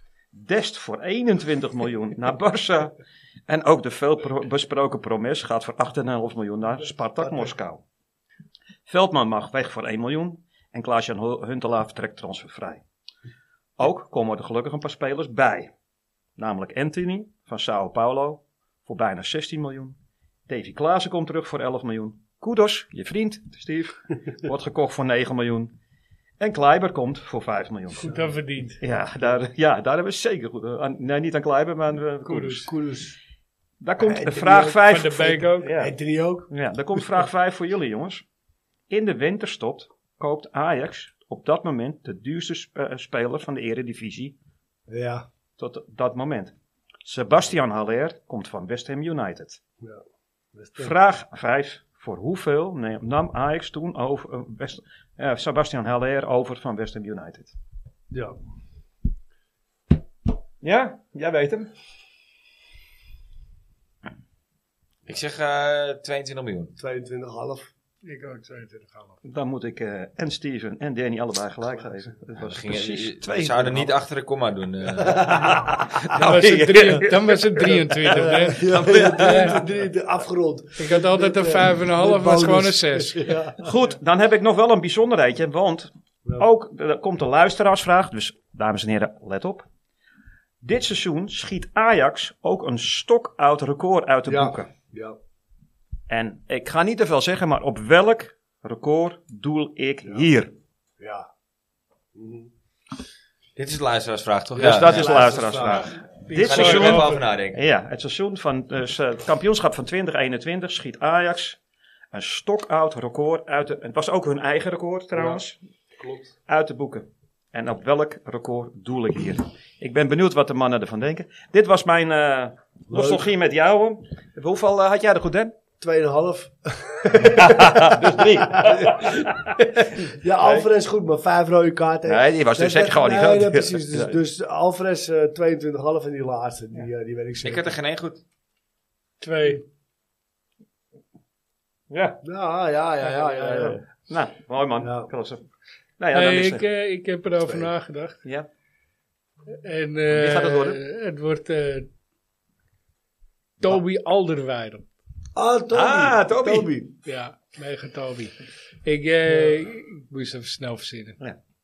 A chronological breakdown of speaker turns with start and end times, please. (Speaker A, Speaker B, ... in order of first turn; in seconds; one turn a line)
Speaker A: 0.3-3.0
Speaker A: 3.5-7.8
Speaker A: 8.9-12.8
Speaker A: 13.8-15.7
Speaker A: 16.4-19.9
Speaker A: 20.5-25.7
Speaker A: 26.4-28.1
Speaker B: 28.0-28.8
Speaker A: 28.8-32.7
Speaker B: 32.2-32.6
Speaker C: 32.6-33.2
Speaker A: 33.8-35.9
Speaker C: 34.0-34.8
Speaker B: 34.9-35.7
Speaker C: 35.6-36.5
Speaker A: 36.5-38.2
Speaker A: 38.9-44.3
Speaker C: 44.9-45.3
Speaker A: 45.6-46.5
Speaker A: 47.0-49.6
Speaker C: 50.5-50.9
Speaker A: 50.8-57.5
Speaker C: 58.1-58.4
Speaker A: 60.6-61.7
Speaker D: 65.1-66.7
Speaker C: 66.8-67.7
Speaker B: 68.0-69.2
Speaker A: 69.2-73.9
Speaker D: 72.4-75.5
Speaker C: 75.0-75.7
Speaker A: 75.4-79.6
Speaker B: 76.1-79.6
Speaker C: 78.1-83.6
Speaker B: 80.8-83.3
Speaker A: 83.6-89.6
Speaker A: 90.6-94.7
Speaker C: 94.2-95.2
Speaker A: 96.1-100.5
Speaker C: 101.0-101.3
Speaker C: 102.1-102.5
Speaker D: 103.5-105.3
Speaker A: 104.5-111.6
Speaker C: 104.6-105.9
Speaker B: 105.6-107.2
Speaker D: 106.3-107.6
Speaker A: 112.1-115.6
Speaker C: 115.2-115.4
Speaker C: 116.0-116.3
Speaker A: 116.5-125.5
Speaker C: 122.9-123.3
Speaker C: 125.8-137.7
Speaker A: 127.2-129.6
Speaker A: 130.4-130.7
Speaker A: 132.1-134.2
Speaker D: 137.4-138.2
Speaker B: 139.2-139.6
Speaker A: 141.9-142.2
Speaker C: 142.2-143.8
Speaker A: 143.0-145.4
Speaker C: 144.8-145.1
Speaker A: 146.0-146.6
Speaker B: 146.1-148.2
Speaker C: 147.4-147.7
Speaker B: 149.5-151.9
Speaker A: 150.1-150.8
Speaker B: 153.6-154.9
Speaker C: 155.3-156.9
Speaker A: 155.7-156.8
Speaker B: 157.1-161.2